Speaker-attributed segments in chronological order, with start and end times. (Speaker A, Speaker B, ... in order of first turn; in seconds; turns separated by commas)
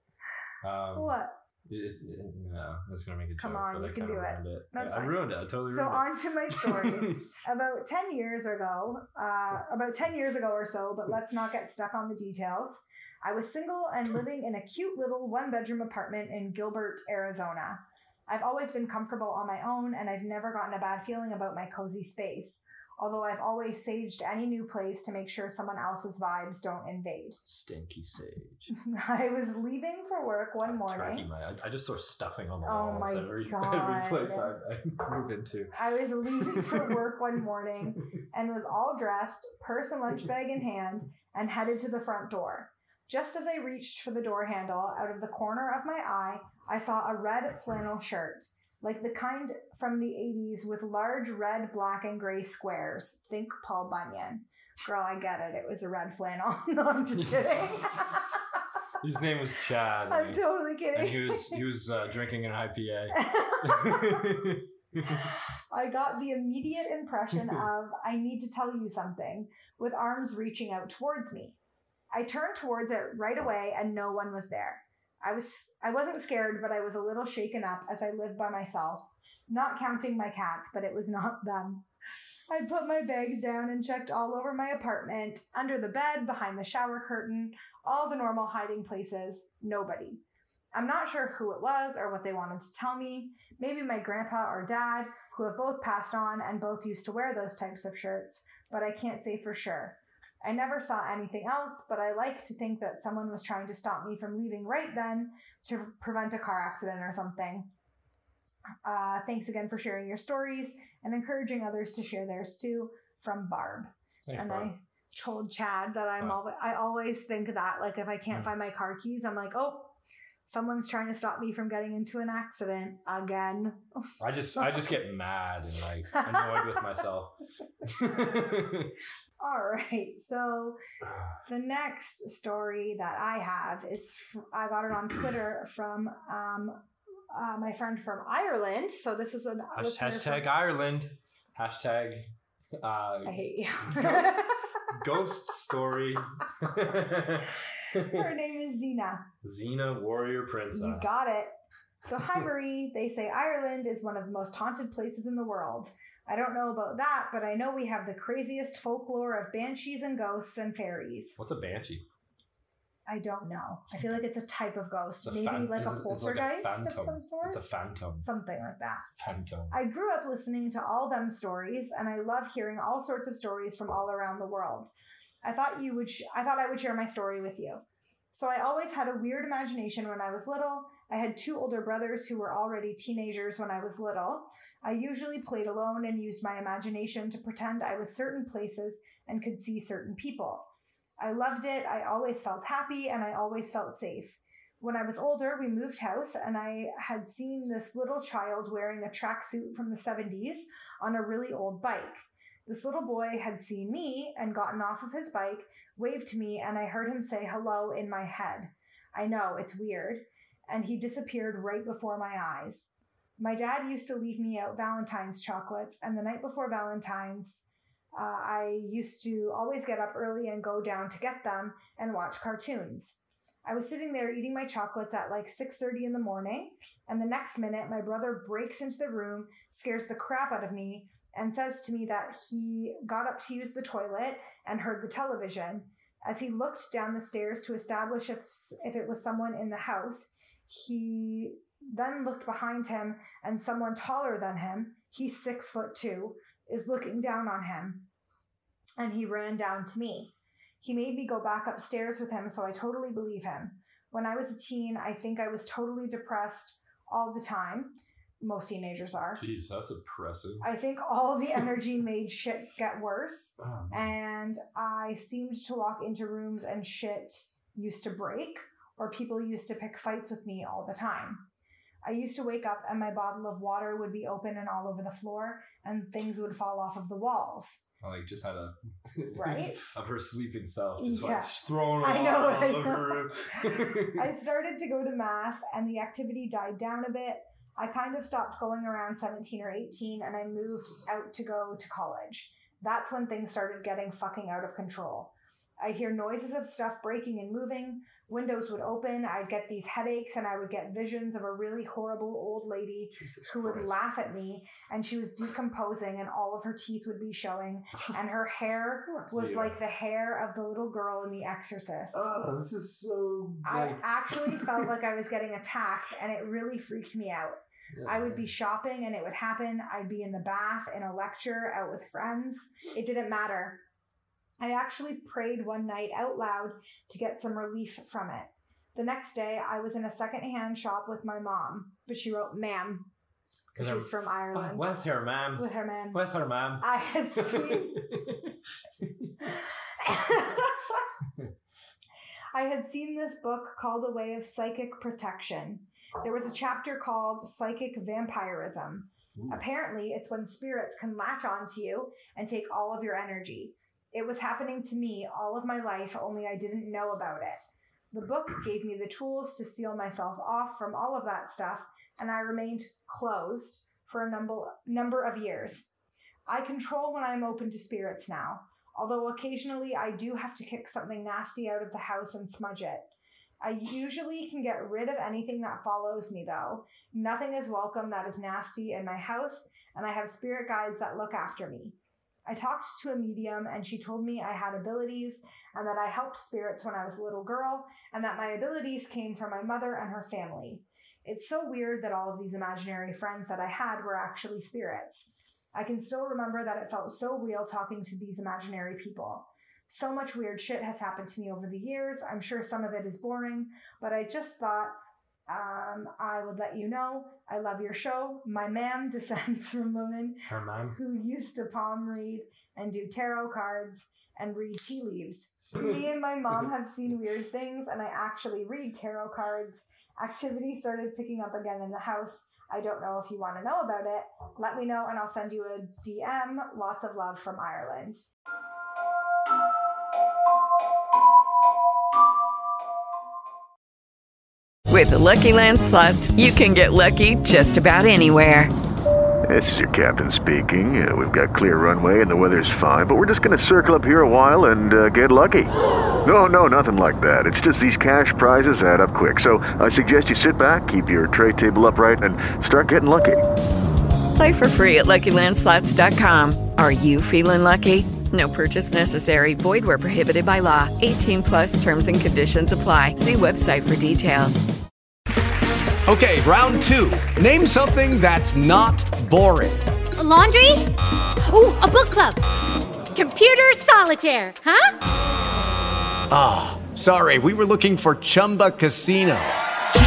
Speaker A: 0.6-7.2, Speaker B: 0.9-1.4, Speaker B: 3.4-27.4, Speaker A: 27.4-28.7, Speaker B: 28.7-31.3, Speaker A: 30.6-37.0, Speaker B: 32.6-34.5, Speaker B: 35.7-58.2, Speaker A: 57.1-58.0, Speaker A: 59.0-65.2, Speaker B: 60.1-61.6, Speaker B: 63.1-64.3, Speaker B: 65.1-71.5, Speaker A: 67.3-67.6, Speaker B: 72.1-81.8, Speaker B: 82.5-90.2, Speaker B: 90.7-107.7, Speaker B: 108.8-119.9, Speaker A: 114.2-114.7, Speaker B: 120.5-124.9, Speaker A: 124.2-128.9, Speaker B: 126.1-126.8, Speaker B: 129.4-130.8, Speaker B: 131.5-136.8, Speaker B: 137.3-140.5, Speaker A: 139.7-148.3, Speaker B: 143.2-144.6, Speaker B: 147.9-149.3, Speaker A: 149.4-151.1, Speaker B: 150.7-161.4, Speaker A: 161.4-162.0, Speaker B: 163.1-167.7, Speaker A: 165.2-168.3, Speaker B: 168.2-169.0, Speaker A: 169.2-169.8, Speaker B: 169.7-174.9, Speaker B: 175.4-190.7, Speaker B: 191.2-248.1, Speaker B: 249.0-259.4, Speaker A: 259.4-260.7, Speaker B: 260.6-271.4, Speaker A: 263.6-264.1, Speaker B: 272.0-277.8, Speaker A: 278.0-284.3, Speaker B: 279.3-279.9, Speaker B: 281.0-312.2, Speaker A: 303.2-304.0, Speaker A: 309.1-309.8, Speaker A: 312.1-314.9, Speaker B: 313.6-323.8, Speaker A: 317.9-318.5, Speaker B: 324.6-333.1, Speaker A: 333.7-339.5, Speaker B: 333.7-335.0, Speaker B: 335.5-338.2, Speaker B: 339.5-341.0, Speaker B: 342.5-357.6, Speaker A: 349.4-349.6, Speaker B: 358.1-365.9, Speaker B: 366.5-404.9, Speaker B: 405.5-428.2, Speaker A: 410.5-411.0, Speaker A: 415.7-416.1, Speaker C: 434.9-438.7, Speaker D: 439.4-445.7, Speaker D: 446.2-453.4, Speaker C: 454.3-464.7, Speaker E: 466.1-469.8, Speaker F: 470.2-472.4, Speaker F: 473.1-474.9, Speaker D: 476.3-479.5, Speaker E: 476.6-479.4